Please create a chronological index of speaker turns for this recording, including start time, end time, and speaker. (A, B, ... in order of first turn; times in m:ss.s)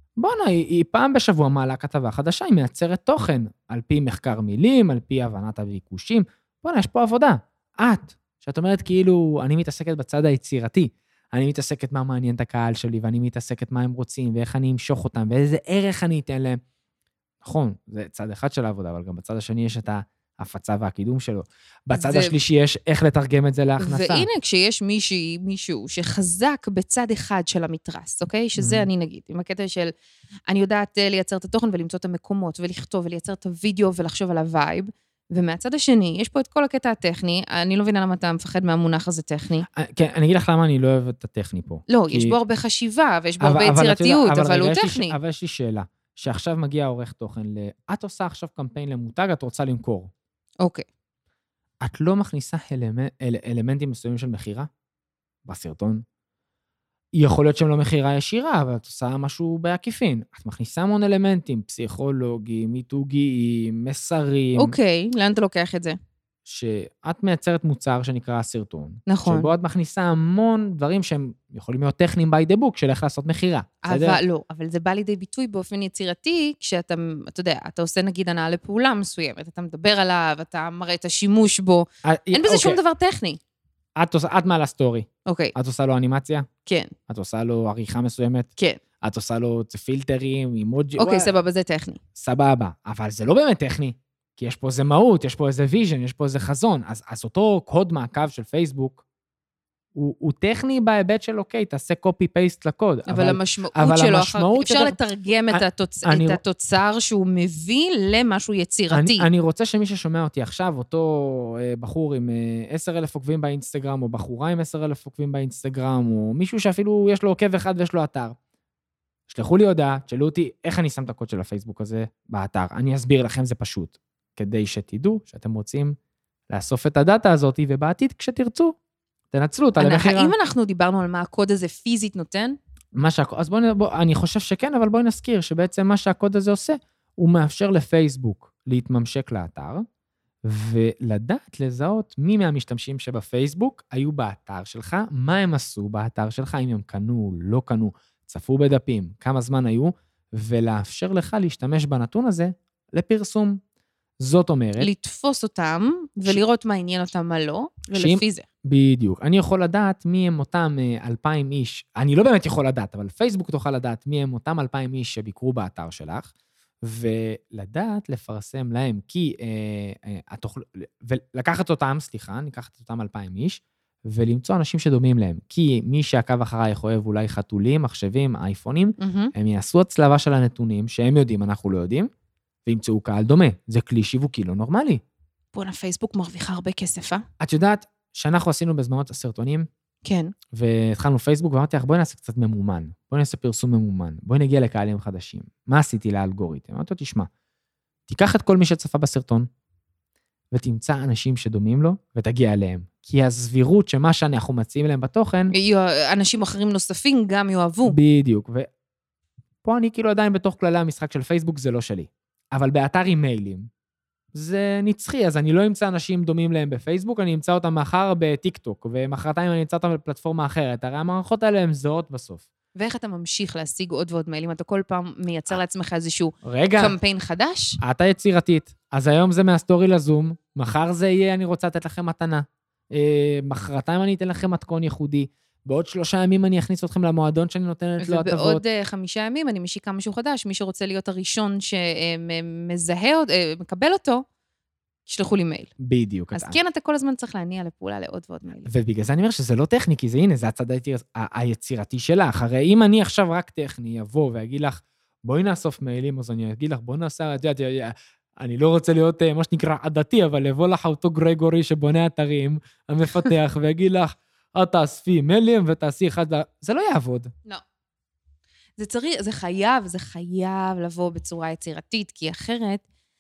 0:00.2-0:16.6 A
0:17.4-0:24.3 A
0:21.9-0:22.4 B
0:23.8-0:29.9 B
0:28.6-0:28.9 A
0:30.5-0:39.7 B
0:39.7-0:42.4 A
0:41.9-0:45.2 B
0:43.4-0:50.1 A
0:51.8-0:54.7 A
0:55.4-0:56.0 A
0:57.2-1:04.8 A
1:04.6-1:06.0 B
1:06.5-1:14.2 A
1:09.1-1:09.5 B
1:13.8-1:23.4 B
1:22.0-1:22.8 A
1:24.0-1:26.5 A
1:25.3-1:25.5 B
1:26.6-1:26.9 B
1:27.1-1:28.5 A
1:29.0-1:31.3 A
1:31.0-1:32.0 B
1:32.2-1:39.0 A
1:40.0-1:45.0 A
1:43.1-1:49.3 B
1:45.5-1:46.4 A
1:48.9-1:58.4 A
1:59.3-2:06.0 A
2:06.5-2:08.8 A
2:09.3-2:10.3 A
2:09.8-2:12.6 B
2:13.0-2:19.8 A
2:20.4-2:33.6 A
2:34.2-2:34.9 A
2:34.8-2:38.5 B
2:37.9-2:46.3 A
2:46.8-3:02.1 A
2:59.0-2:59.3 B
3:02.7-3:05.0 A
3:05.5-3:07.2 B
3:07.4-3:09.7 A
3:10.0-3:10.3 B
3:10.5-3:17.3 A
3:18.1-3:19.5 A
3:20.5-3:25.5 A
3:25.5-3:28.0 B
3:27.9-3:28.7 A
3:29.6-3:33.7 A
3:34.3-3:42.5 A
3:42.8-3:47.8 B
3:46.4-3:47.0 A
3:47.8-3:58.6 A
3:58.0-4:04.2 B
4:05.1-4:05.7 B
4:05.8-4:06.6 A
4:06.3-4:08.7 B
4:08.7-4:27.3 A
4:28.8-4:32.8 B